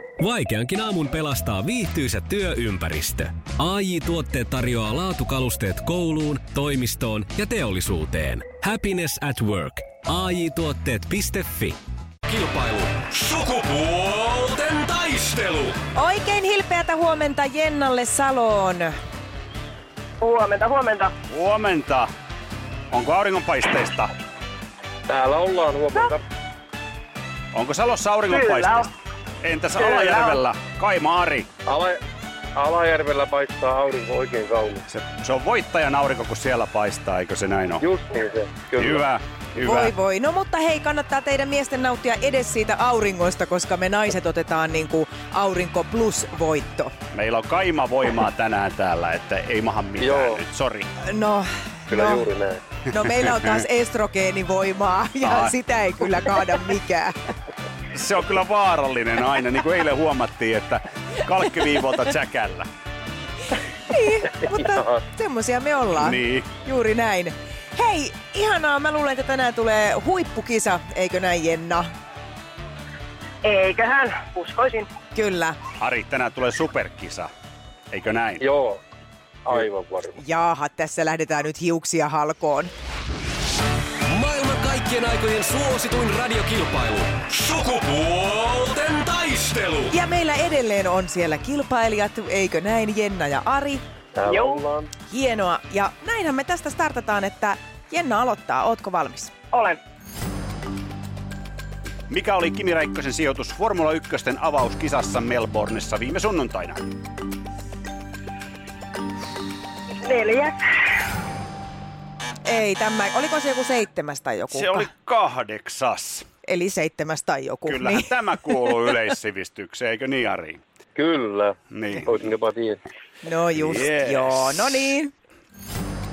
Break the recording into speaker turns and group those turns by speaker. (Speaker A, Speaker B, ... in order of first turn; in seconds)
Speaker A: 0.2-15.8, 84.1-89.9
Speaker B: 15.9-18.9, 39.6-46.9, 51.0-52.3, 52.9-57.1, 63.9-71.9, 75.1-75.6, 80.2-82.7, 89.9-93.8, 95.1-99.3, 112.5-114.9, 116.5-118.1, 123.2-125.1
Speaker C: 20.2-21.1, 28.3-28.9, 29.8-30.4, 73.4-74.9, 94.2-94.7, 99.5-99.8, 110.0-110.6
Speaker D: 21.3-22.1, 22.9-24.1, 27.5-28.9, 29.4-31.5, 34.9-37.9, 38.8-39.9, 47.1-50.9, 53.1-53.6, 55.2-55.5, 57.9-62.7, 65.9-66.5, 75.8-77.3, 77.9-78.4, 102.1-106.9, 114.5-116.3, 117.7-120.6, 121.7-122.3, 123.5-124.7
Speaker E: 25.1-26.2, 31.6-32.0, 32.5-34.8, 37.8-39.0, 50.0-50.4, 51.9-52.6, 78.4-78.8, 79.4-80.2, 94.1-94.9, 120.9-122.8